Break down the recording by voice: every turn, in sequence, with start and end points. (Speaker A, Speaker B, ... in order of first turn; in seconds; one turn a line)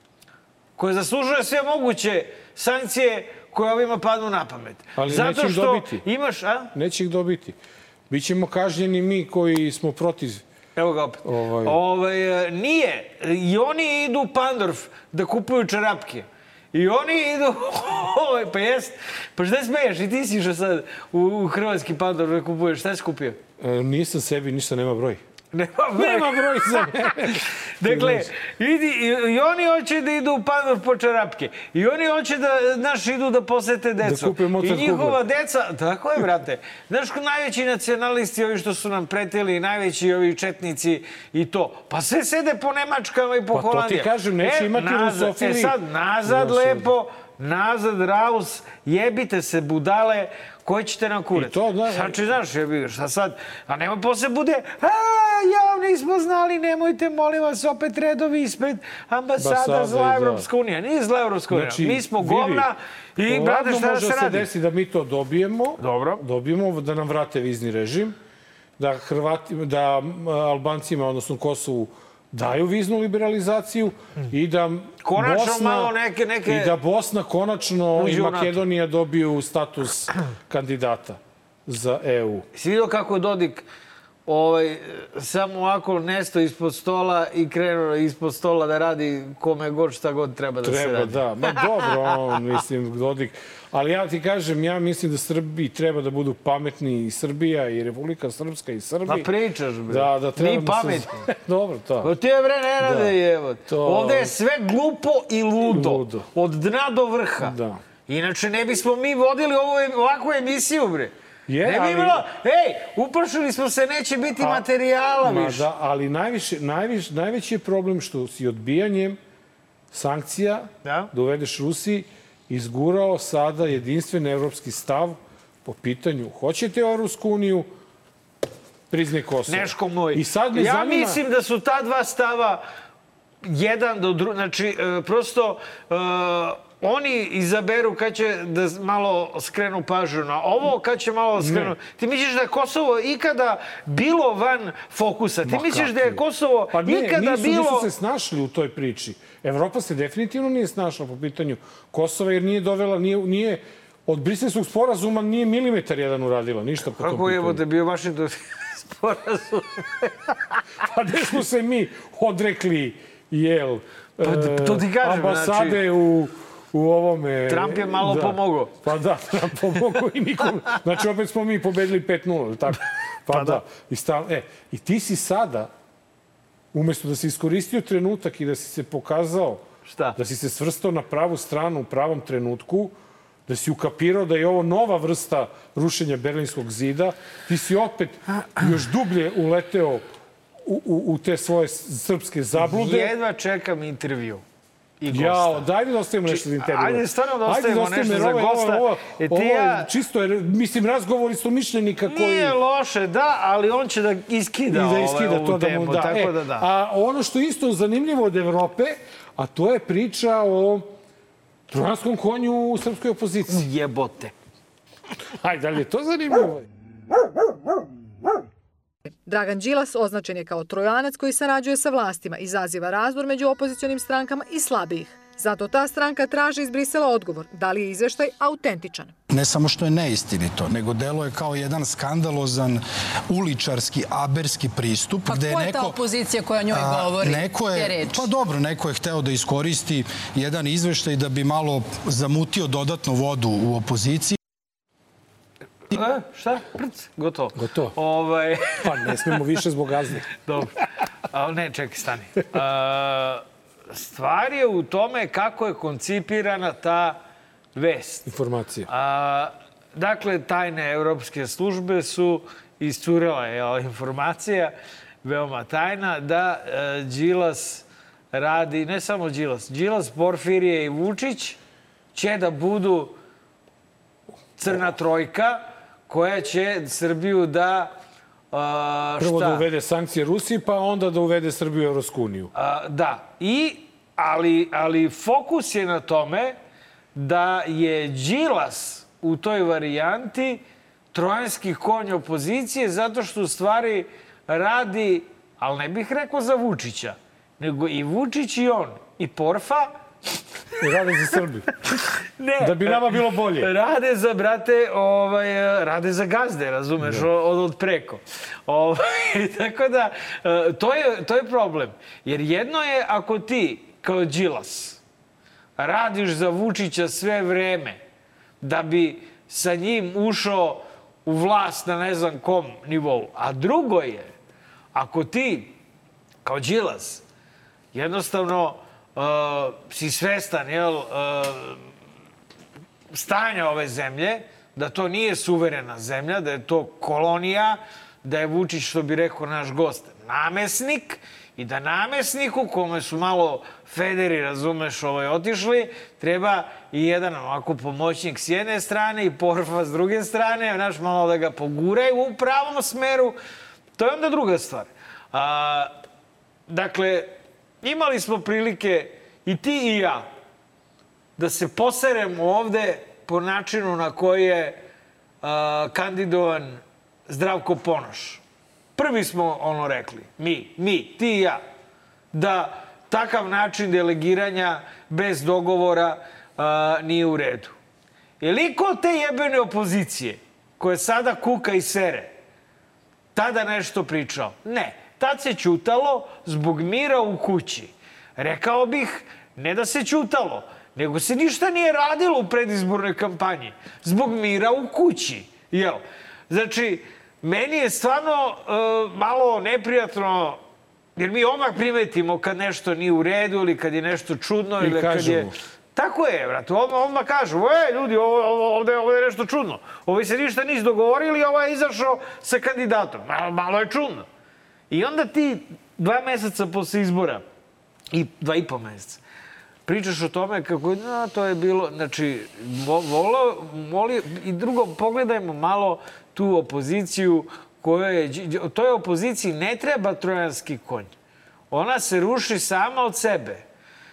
Speaker A: 0.8-6.7
Speaker B: 5.0-6.0
Speaker B: 6.7-7.6
Speaker B: 8.1-10.4
Speaker A: 10.8-23.4
Speaker B: 11.2-11.8
Speaker B: 23.6-25.2
Speaker A: 25.5-64.5
Speaker B: 25.9-28.3
Speaker B: 34.0-35.2
Speaker B: 43.5-46.9
Speaker B: 51.3-52.3
Speaker B: 59.4-60.4
Speaker B: 61.5-62.7
Speaker B: 63.2-68.2
Speaker A: 65.8-66.2
Speaker B: 68.8-75.9
Speaker A: 75.0-76.8
Speaker B: 76.5-82.4
Speaker A: 78.0-78.6
Speaker A: 82.5-83.7
Speaker A: 84.3-91.2
Speaker B: 90.6-99.3
Speaker A: 99.0-101.2
Speaker B: 99.9-102.1
Speaker A: 102.0-107.5
Speaker B: 102.8-103.1
Speaker B: 103.7-104.3
Speaker B: 105.7-106.2
Speaker B: 107.4-107.8
Speaker A: 108.1-115.7
Speaker B: 111.5-112.2
Speaker B: 114.4-114.7
Speaker B: 115.2-119.2
Speaker B: 119.9-127.7
Speaker A: 120.8-121.1
Speaker B: 128.9-131.2
Speaker A: 129.5-132.6
Speaker A: 133.4-147.9
Speaker B: 141.4-141.8
Speaker B: 145.4-157.6
Speaker A: 156.9-160.3
Speaker B: 160.8-175.7
Speaker A: 164.2-165.8
Speaker A: 167.5-168.8
Speaker A: 173.3-173.6
Speaker B: 176.7-179.6
Speaker A: 179.9-180.2
Speaker B: 180.1-182.9
Speaker B: 183.5-190.0
Speaker B: 190.6-193.1
Speaker A: 192.6-194.4
Speaker A: 195.0-195.6
Speaker B: 195.1-202.5
Speaker A: 196.3-199.9
Speaker A: 202.1-206.7
Speaker B: 204.7-210.9
Speaker B: 211.7-213.6
Speaker A: 213.5-214.3
Speaker B: 215.4-216.7
Speaker C: 219.2-229.1
Speaker D: 229.3-236.0
Speaker E: 235.2-238.3
Speaker D: 236.7-244.3
Speaker A: 245.9-249.1
Speaker B: 247.6-247.9
Speaker B: 248.8-250.3
Speaker A: 250.4-250.8
Speaker A: 251.3-257.2
Speaker A: 257.7-258.3
Speaker B: 258.2-258.9
Speaker A: 258.9-271.6
Speaker A: 272.1-273.1
Speaker A: 274.6-278.0
Speaker A: 278.5-279.6
Speaker B: 279.2-282.5
Speaker A: 282.5-286.6
Speaker A: 287.1-299.9
Speaker B: 300.8-301.7
Speaker A: 301.9-315.0
Speaker B: 302.6-303.7
Speaker B: 307.0-307.3
Speaker A: 315.8-318.0
Speaker A: 318.6-324.3
Speaker A: 324.9-325.8
Speaker A: 326.4-327.2
Speaker A: 327.9-331.8
Speaker A: 333.1-353.4
Speaker A: 354.0-356.0
Speaker A: 356.7-360.3
Speaker A: 361.4-364.8
Speaker A: 365.4-368.4
Speaker A: 368.9-371.6
Speaker A: 372.3-377.7
Speaker A: 378.4-382.3
Speaker A: 383.3-400.6
Speaker A: 401.2-414.2
Speaker B: 404.8-405.5
Speaker A: 414.9-417.4
Speaker A: 418.1-419.2
Speaker A: 419.9-431.1
Speaker A: 431.7-433.6